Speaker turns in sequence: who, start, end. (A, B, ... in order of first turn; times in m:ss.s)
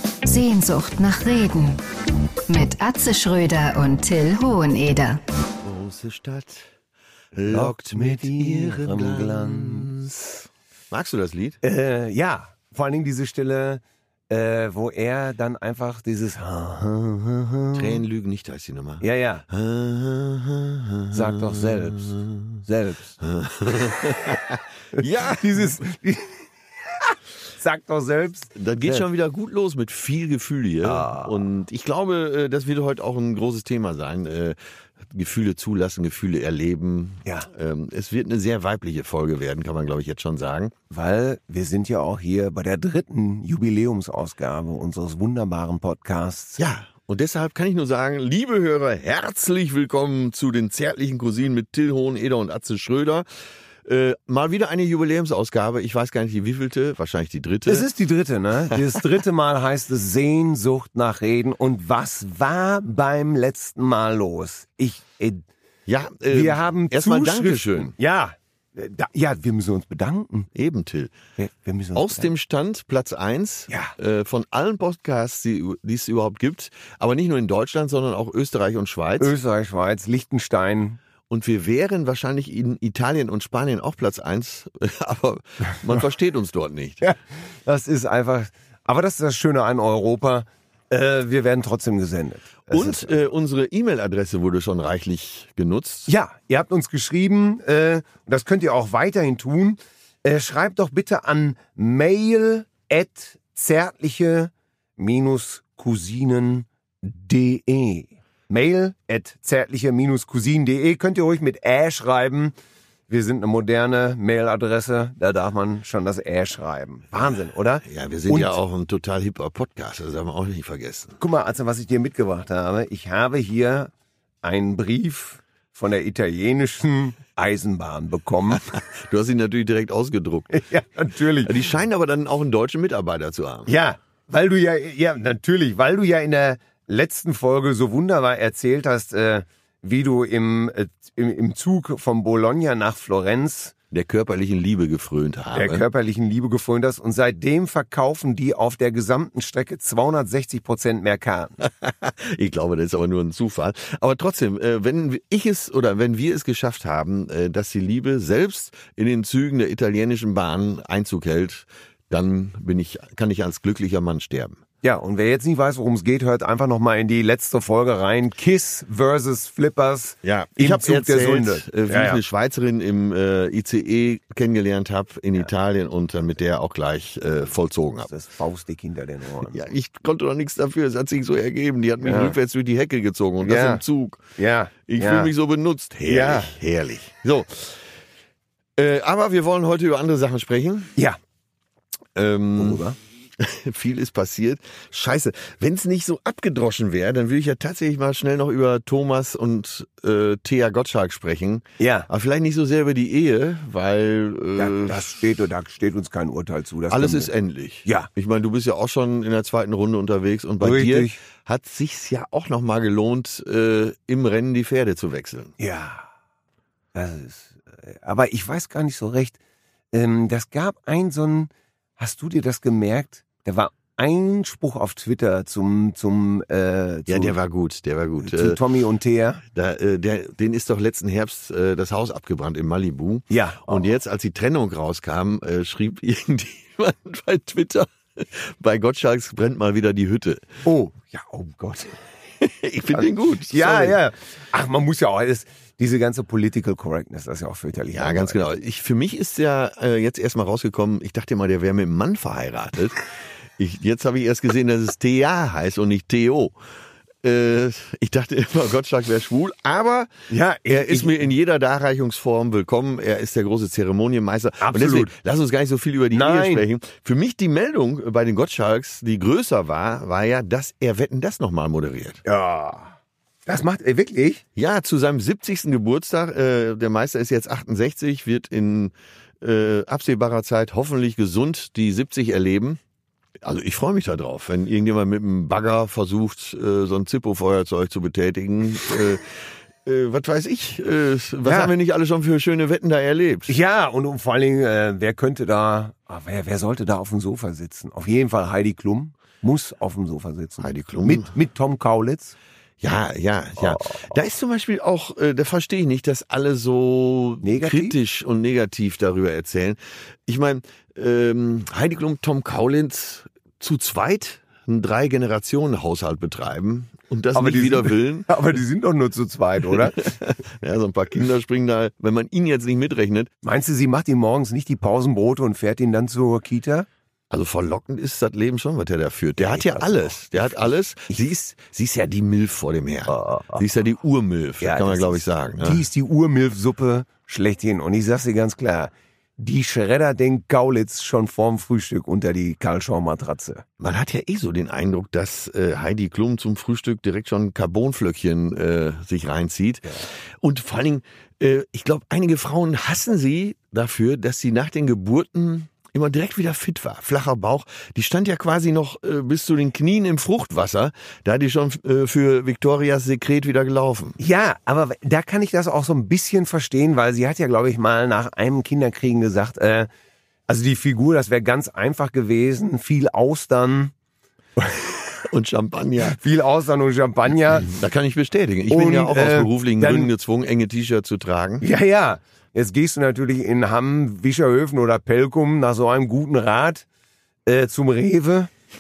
0:00.2-0:01.8 A
0:02.5-0:05.2 A
0:05.6-0:06.7 B
0:07.3-0:11.6 B
0:07.5-0:09.9 C
0:11.6-0:18.0 C
0:17.8-0:22.6 B
0:19.0-0:19.4 C
0:21.1-0:23.2 C
0:23.2-0:25.8 B
0:23.8-0:24.2 C
0:24.9-0:26.4 C
0:27.0-0:29.0 C
0:28.6-0:34.6 B
0:30.8-0:31.4 C
0:35.1-0:40.7 B
0:40.9-0:46.6 C
0:46.6-0:53.3 B
0:53.8-0:57.9 B
0:57.7-1:05.4 C
0:58.7-0:59.0 B
1:05.9-1:07.9 B
1:06.3-1:10.5 C
1:10.6-1:11.1 B
1:11.4-1:12.3 C
1:11.9-1:19.3 B
1:13.7-1:13.9 C
1:19.2-1:21.0 C
1:21.3-1:27.0 B
1:27.0-1:33.1 C
1:32.7-1:36.1 B
1:36.1-1:52.5 C
1:53.1-1:58.6 C
1:57.8-2:01.2 B
2:01.2-2:03.9 C
2:04.4-2:08.7 C
2:08.5-2:10.5 B
2:10.5-2:11.5 C
2:11.4-2:13.7 B
2:13.7-2:23.7 C
2:23.9-2:25.8 B
2:25.5-2:31.6 C
2:31.6-2:44.6 B
2:44.8-2:52.2 C
2:50.2-2:58.1 B
2:58.1-2:59.6 C
2:59.5-3:04.2 B
3:02.0-3:02.4 C
3:03.4-3:03.8 C
3:04.4-3:05.3 C
3:04.9-3:07.8 B
3:06.1-3:06.5 C
3:08.8-3:10.9 B
3:12.2-3:12.8 B
3:12.6-3:13.0 C
3:13.4-3:25.2 B
3:21.8-3:22.1 C
3:24.6-3:27.3 C
3:26.9-3:35.5 B
3:30.6-3:31.2 C
3:35.6-3:36.1 C
3:36.9-3:39.4 C
3:39.9-3:47.4 C
3:47.1-3:48.6 B
3:48.2-3:49.4 C
3:49.5-4:00.4 B
3:53.3-3:53.8 C
4:00.6-4:02.0 C
4:02.4-4:04.0 B
4:02.9-4:08.5 C
4:07.9-4:13.0 B
4:13.6-4:16.6 B
4:17.2-4:20.1 B
4:20.3-4:21.3 C
4:20.7-4:32.2 B
4:24.6-4:25.1 C
4:26.1-4:26.6 C
4:32.2-4:32.9 C
4:33.5-4:34.4 C
4:34.6-4:42.8 B
4:43.4-4:53.6 B
4:51.4-4:51.7 C
4:53.5-5:02.4 C
5:00.6-5:01.3 B
5:02.8-5:18.3 B
5:03.6-5:04.1 C
5:07.4-5:08.0 C
5:17.3-5:20.2 C
5:19.7-5:23.3 B
5:23.4-5:26.9 C
5:27.3-5:35.8 B
5:29.4-5:30.1 C
5:33.1-5:33.6 C
5:34.6-5:43.6 C
5:43.8-6:04.2 B
6:04.2-6:09.9 C
6:10.5-6:13.9 C
6:14.6-6:14.9 C
6:15.2-6:16.2 B
6:16.0-6:17.7 C
6:17.6-6:21.6 B
6:18.7-6:20.1 C
6:21.6-6:26.8 C
6:27.5-6:28.5 C